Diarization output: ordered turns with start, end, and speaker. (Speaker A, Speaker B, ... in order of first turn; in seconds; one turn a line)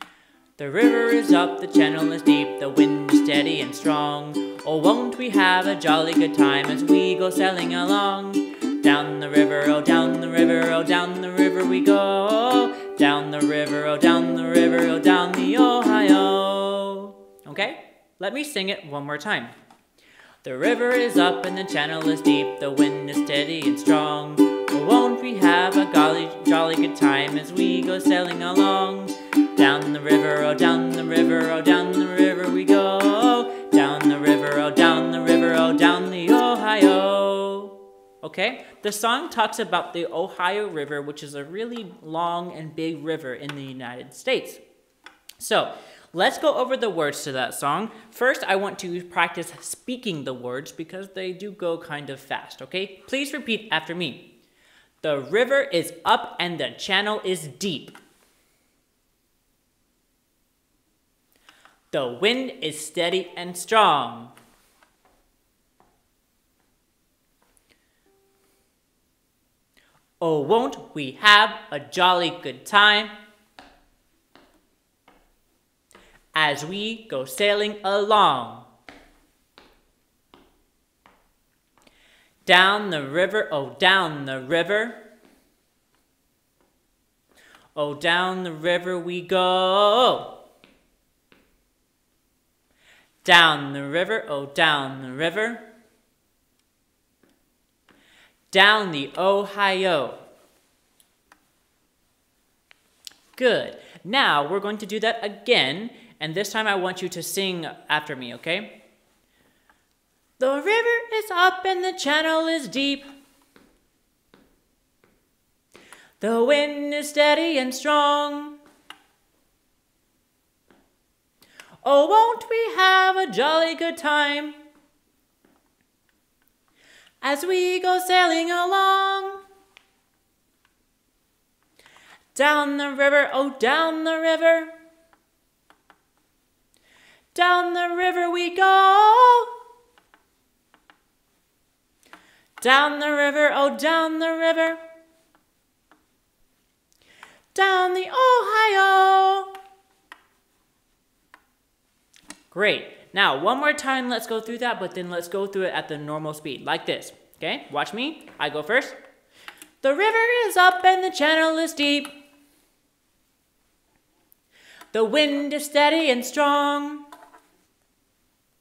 Speaker A: 0.6-19.5
Speaker A: 20.4-44.6
Speaker A: 45.4-54.4
Speaker A: 55.0-58.0
Speaker A: 61.9-64.3
Speaker A: 70.2-73.1
Speaker A: 76.3-78.7
Speaker A: 82.4-85.0
Speaker A: 87.7-90.4
Speaker A: 93.2-95.7
Speaker A: 98.5-100.2
Speaker A: 103.3-108.8
Speaker A: 110.4-113.1
Speaker A: 116.2-118.6
Speaker A: 121.8-124.6
Speaker A: 127.2-129.4
Speaker A: 132.3-134.7
Speaker A: 137.3-139.5
Speaker A: 142.6-144.8
Speaker A: 147.5-149.5
Speaker A: 152.5-159.0
Speaker A: 159.8-162.2
Speaker A: 164.9-167.1